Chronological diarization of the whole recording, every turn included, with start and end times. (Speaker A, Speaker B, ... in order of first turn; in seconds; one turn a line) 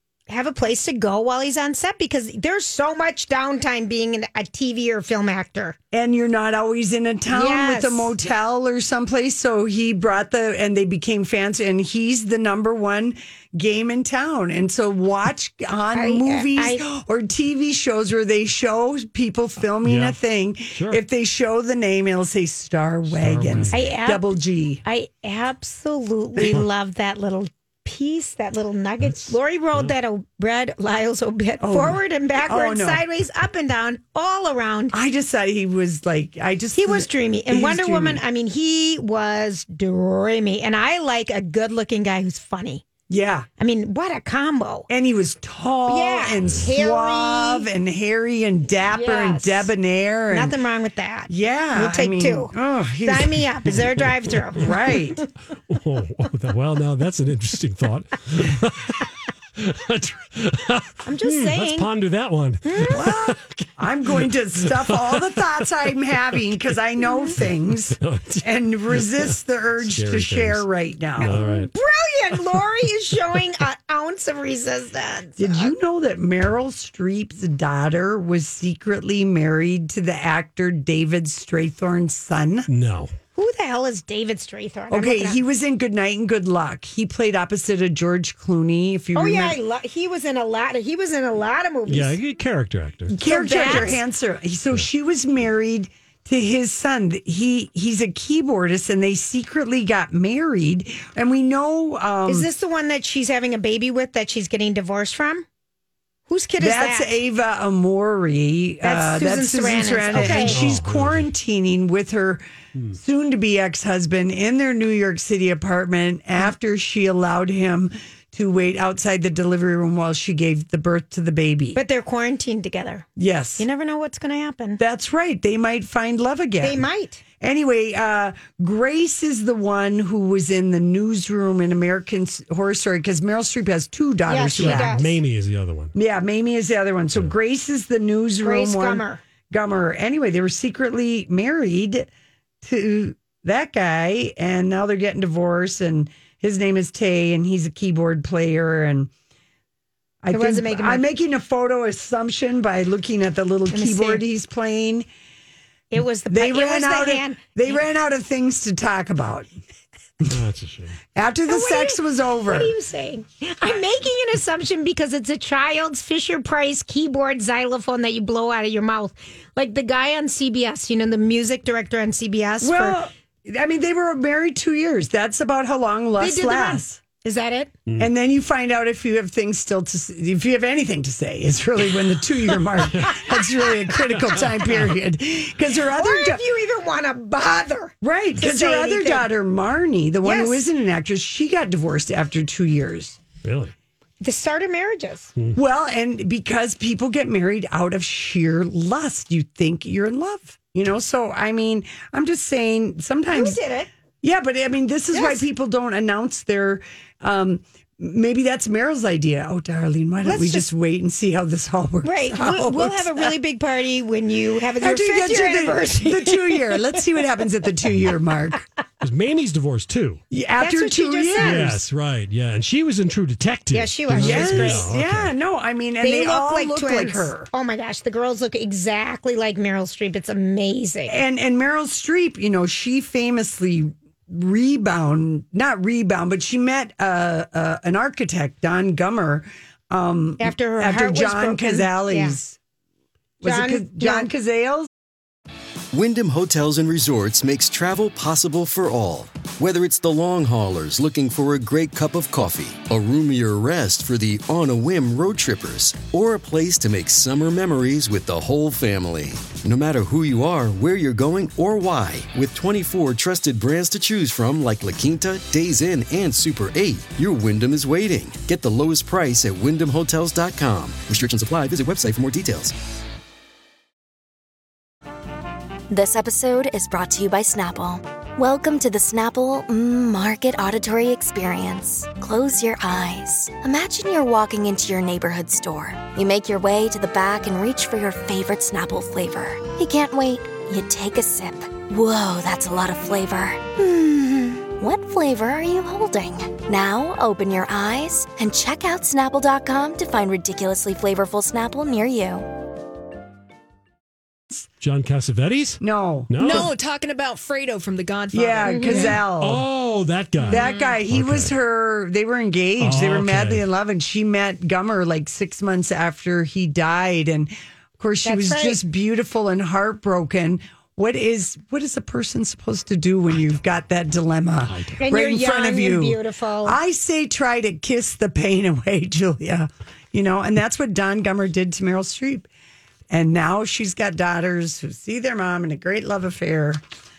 Speaker A: 0.3-5.8
Speaker B: 5.9-24.8
Speaker A: 7.3-8.1
Speaker A: 15.9-16.8
Speaker C: 19.8-20.2
Speaker C: 20.7-21.0
Speaker C: 23.1-24.0
Speaker A: 23.7-24.3
Speaker A: 24.8-35.0
Speaker C: 29.0-29.9
Speaker B: 31.6-33.0
Speaker B: 34.9-38.2
Speaker A: 36.8-42.9
Speaker B: 43.1-43.5
Speaker A: 43.6-44.9
Speaker B: 44.9-50.5
Speaker A: 45.9-47.7
Speaker A: 48.9-49.7
Speaker A: 50.3-52.5
Speaker B: 51.3-53.5
Speaker A: 53.0-54.7
Speaker C: 53.7-54.6
Speaker B: 54.5-55.2
Speaker C: 55.7-65.5
Speaker A: 61.0-61.9
Speaker A: 62.6-63.1
Speaker B: 62.9-71.4
Speaker C: 67.5-70.7
Speaker C: 71.2-71.7
Speaker A: 71.4-75.7
Speaker B: 75.4-82.7
Speaker C: 82.7-83.1
Speaker A: 83.3-85.4
Speaker B: 84.9-89.6
Speaker A: 89.2-92.2
Speaker C: 91.9-93.9
Speaker B: 93.1-102.5
Speaker A: 93.2-94.0
Speaker A: 102.3-105.5
Speaker A: 106.3-107.1
Speaker B: 106.6-121.8
Speaker A: 108.8-110.6
Speaker C: 110.2-111.3
Speaker A: 121.8-123.1
Speaker B: 123.2-123.7
Speaker A: 123.6-124.8
Speaker B: 124.8-126.9
Speaker A: 126.6-127.2
Speaker B: 127.4-135.0
Speaker A: 134.3-135.2
Speaker C: 134.6-135.9
Speaker B: 135.9-142.1
Speaker A: 138.4-139.2
Speaker B: 142.6-149.1
Speaker B: 150.2-155.1
Speaker A: 150.3-151.1
Speaker A: 153.7-154.2
Speaker A: 155.9-157.8
Speaker B: 156.3-159.5
Speaker C: 160.3-161.0
Speaker B: 161.2-162.7
Speaker A: 161.5-173.0
Speaker B: 172.6-177.0
Speaker A: 176.2-177.7
Speaker B: 178.0-186.4
Speaker C: 184.2-184.9
Speaker A: 185.9-189.3
Speaker B: 188.0-193.2
Speaker A: 190.2-190.6
Speaker C: 193.4-193.7
Speaker A: 194.2-195.3
Speaker B: 195.5-203.6
Speaker A: 203.3-203.9
Speaker B: 204.2-213.3
Speaker A: 205.1-205.4
Speaker A: 210.2-210.7
Speaker A: 212.0-216.8
Speaker B: 214.8-218.6
Speaker C: 219.0-220.2
Speaker B: 220.3-221.8
Speaker A: 220.6-221.7
Speaker C: 221.4-225.3
Speaker A: 223.7-224.9
Speaker B: 224.1-227.5
Speaker A: 226.0-231.2
Speaker B: 231.1-242.6
Speaker A: 240.4-242.4
Speaker B: 243.4-244.9
Speaker A: 243.4-244.3
Speaker D: 245.9-272.8
Speaker E: 275.9-302.5
Speaker C: 304.8-306.7
Speaker B: 305.8-306.7
Speaker F: 306.4-309.2
Speaker B: 308.3-309.7
Speaker A: 308.6-309.1
Speaker C: 309.3-311.5
Speaker F: 310.4-311.0
Speaker B: 310.5-332.5
Speaker C: 312.8-313.6
Speaker A: 318.2-318.8
Speaker C: 324.7-325.0
Speaker A: 325.0-326.8
Speaker B: 333.1-336.8